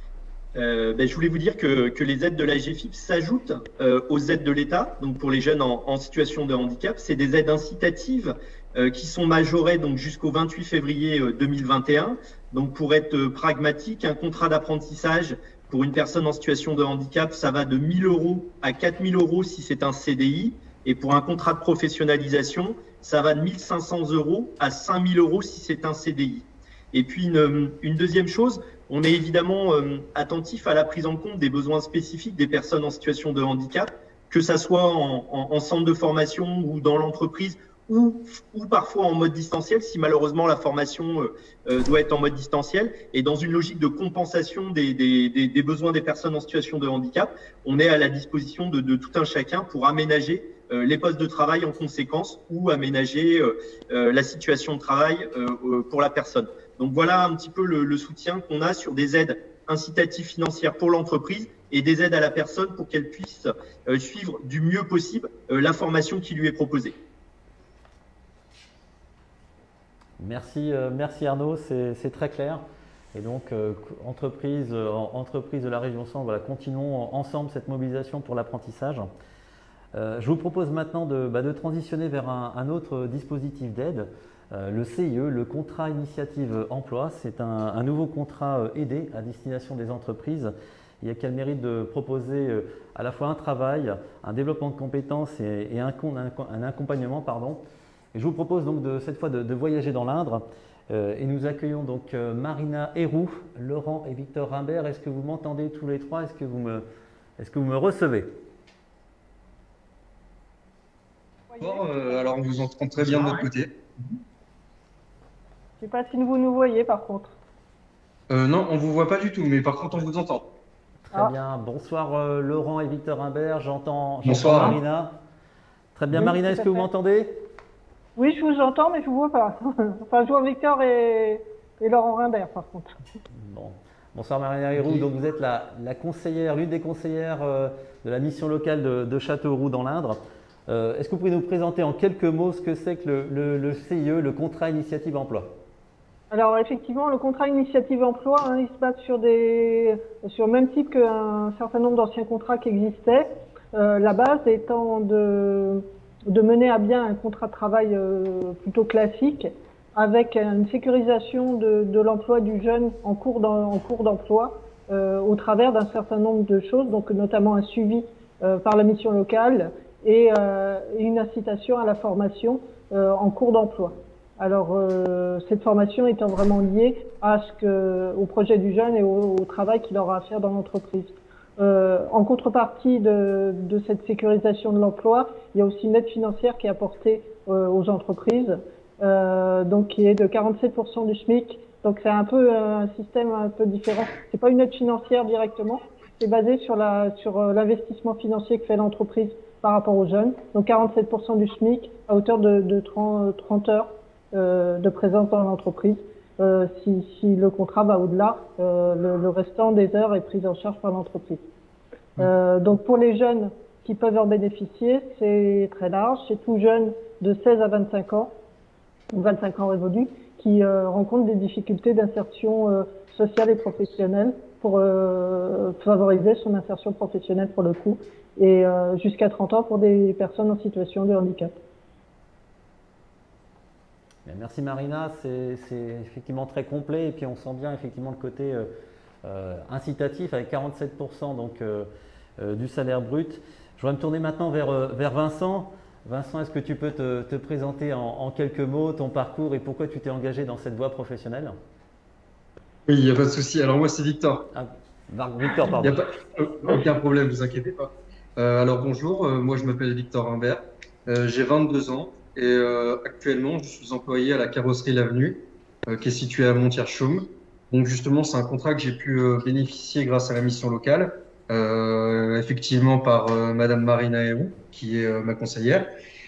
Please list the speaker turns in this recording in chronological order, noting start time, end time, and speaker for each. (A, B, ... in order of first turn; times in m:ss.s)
0:00.5-1:06.9 A
1:10.2-1:12.6 B
1:13.1-1:19.1 B
1:19.9-1:37.6 B
1:38.1-1:46.8 B
1:47.4-1:48.3 B
1:51.5-1:52.4 C
1:51.6-1:53.7 D
1:55.8-1:57.3 C
1:58.3-2:00.5 D
2:01.1-2:05.2 B
2:04.3-2:04.7 D
2:05.9-2:07.4 B
2:06.1-2:06.9 C
2:08.2-2:13.0 C
2:13.4-2:25.5 B
2:26.3-3:31.4 C
3:32.2-3:38.3 C
3:39.1-3:51.6 C
3:54.2-3:58.7 B
3:59.2-4:11.6 B
4:12.9-4:14.4 D
4:14.5-4:16.0 B
4:15.7-4:35.9 D